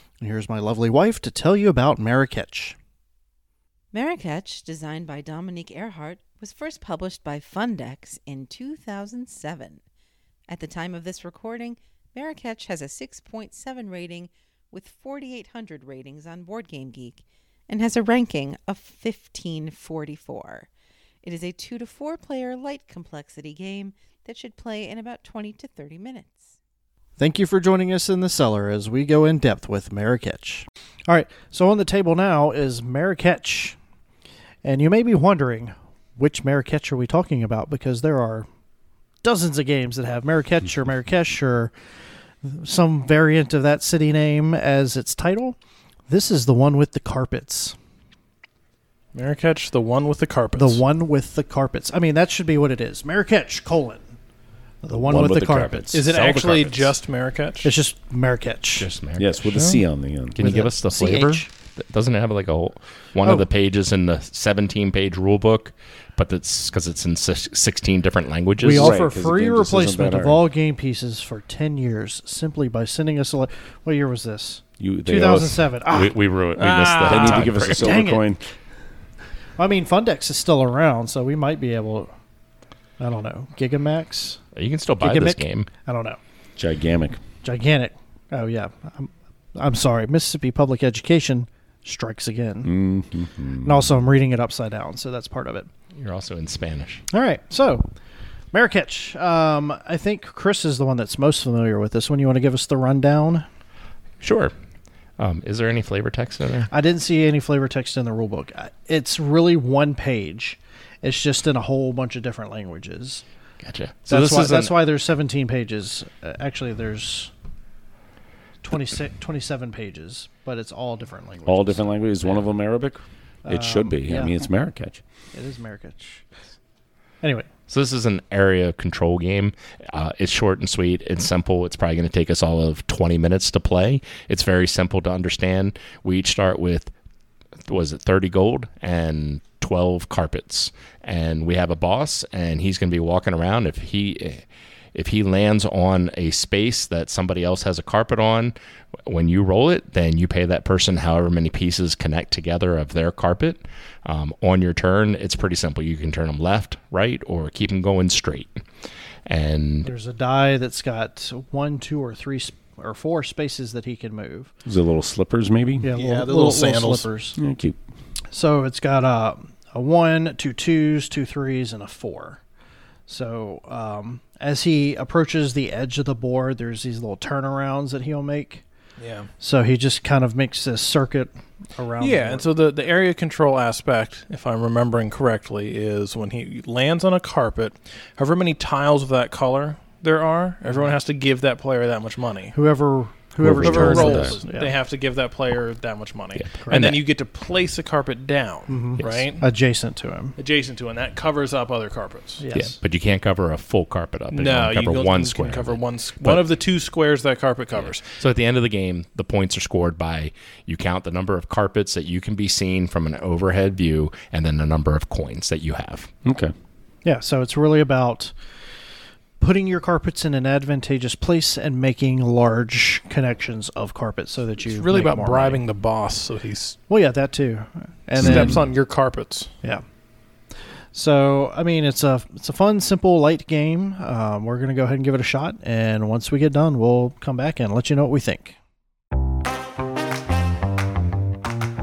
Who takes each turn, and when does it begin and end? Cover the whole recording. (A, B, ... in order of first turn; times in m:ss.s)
0:00.2-0:02.8 A
0:03.9-0:09.8 B
0:10.5-0:20.7 B
0:21.2-0:26.5 B
0:27.2-0:33.8 A
0:34.6-0:38.5 A
0:39.2-0:41.7 A
0:42.4-0:45.6 A
0:46.1-0:47.8 A
0:49.1-0:50.8 C
0:50.6-0:54.1 A
0:54.8-0:56.0 A
0:55.0-0:56.3 D
0:55.9-0:57.7 C
0:56.2-0:56.8 E
0:57.6-0:58.9 A
0:58.8-0:59.3 E
0:59.2-1:00.4 D
0:59.5-0:59.8 C
1:00.4-1:09.1 E
1:00.4-1:01.5 A
1:03.2-1:03.5 A
1:08.6-1:16.2 A
1:08.7-1:10.4 D
1:14.8-1:15.8 D
1:15.9-1:18.0 E
1:16.6-1:17.6 C
1:17.1-1:18.4 D
1:17.4-1:18.2 A
1:19.6-1:22.1 A
1:23.0-1:24.4 A
1:24.6-1:25.7 E
1:25.0-1:26.2 A
1:26.6-1:27.2 D
1:27.4-1:32.7 A
1:32.6-1:34.0 D
1:33.6-1:35.7 A
1:36.0-1:37.0 E
1:37.1-1:37.9 A
1:38.5-1:43.4 A
1:44.2-1:44.5 E
1:45.2-1:46.7 E
1:46.7-1:53.2 A
1:53.6-1:54.7 E
1:54.1-1:57.3 A
1:58.6-2:01.9 A
2:01.5-2:05.0 D
2:03.4-2:04.4 A
2:05.3-2:06.4 A
2:07.2-2:07.5 A
2:07.7-2:16.9 E
2:17.7-2:28.6 E
2:29.1-2:38.6 E
2:39.3-2:39.9 E
2:39.8-2:44.5 A
2:44.7-2:45.9 D
2:45.8-2:47.4 A
2:46.0-2:47.1 C
2:47.4-2:47.8 D
2:48.3-2:52.4 A
2:53.1-2:58.6 A
2:59.0-2:59.3 C
2:59.4-3:02.5 A
3:02.0-3:12.6 C
3:12.5-3:14.7 A
3:13.4-3:14.4 D
3:13.6-3:19.4 C
3:16.4-3:17.0 E
3:16.6-3:17.0 A
3:18.7-3:20.4 A
3:19.0-3:19.3 E
3:20.4-3:22.4 C
3:22.4-3:22.8 A
3:22.5-3:26.5 E
3:24.3-3:28.1 C
3:27.8-3:36.1 E
3:36.3-3:36.5 D
3:37.0-3:38.4 A
3:39.4-3:45.6 A
3:44.6-3:46.8 C
3:46.9-3:48.7 A
3:48.2-3:49.5 C
3:50.9-3:58.6 A